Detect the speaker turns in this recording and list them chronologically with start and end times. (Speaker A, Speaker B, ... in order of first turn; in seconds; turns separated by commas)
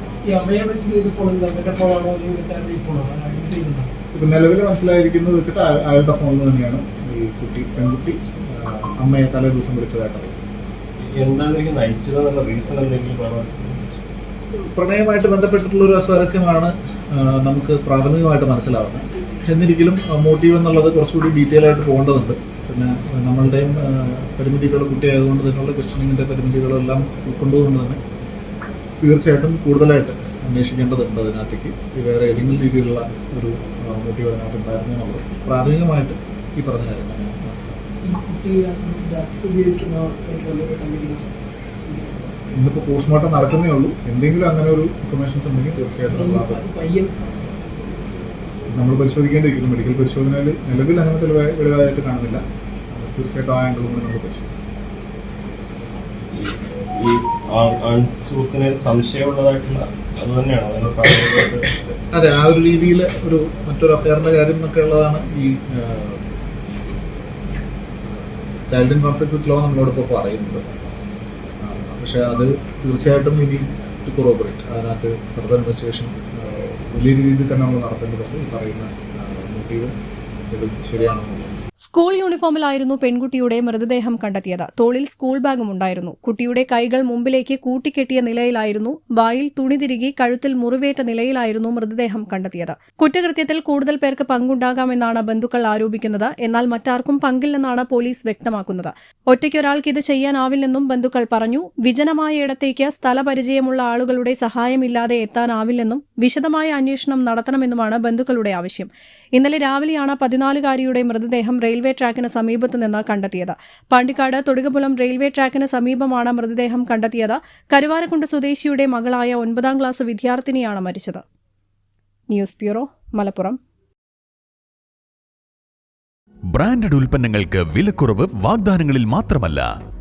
Speaker A: 0.2-3.9, Speaker B: 4.1-10.4, Speaker C: 11.0-14.0, Speaker B: 14.7-28.0, Speaker B: 29.0-37.8, Speaker A: 38.0-41.3, Speaker A: 41.8-42.3, Speaker B: 42.5-46.7, Speaker A: 46.1-47.3, Speaker B: 48.7-54.5, Speaker C: 56.3-62.0, Speaker B: 62.1-66.2, Speaker B: 68.7-70.6, Speaker B: 71.6-79.9, Speaker B: 80.5-81.6, Speaker D: 81.9-121.2, Speaker D: 122.3-123.6, Speaker E: 126.5-129.7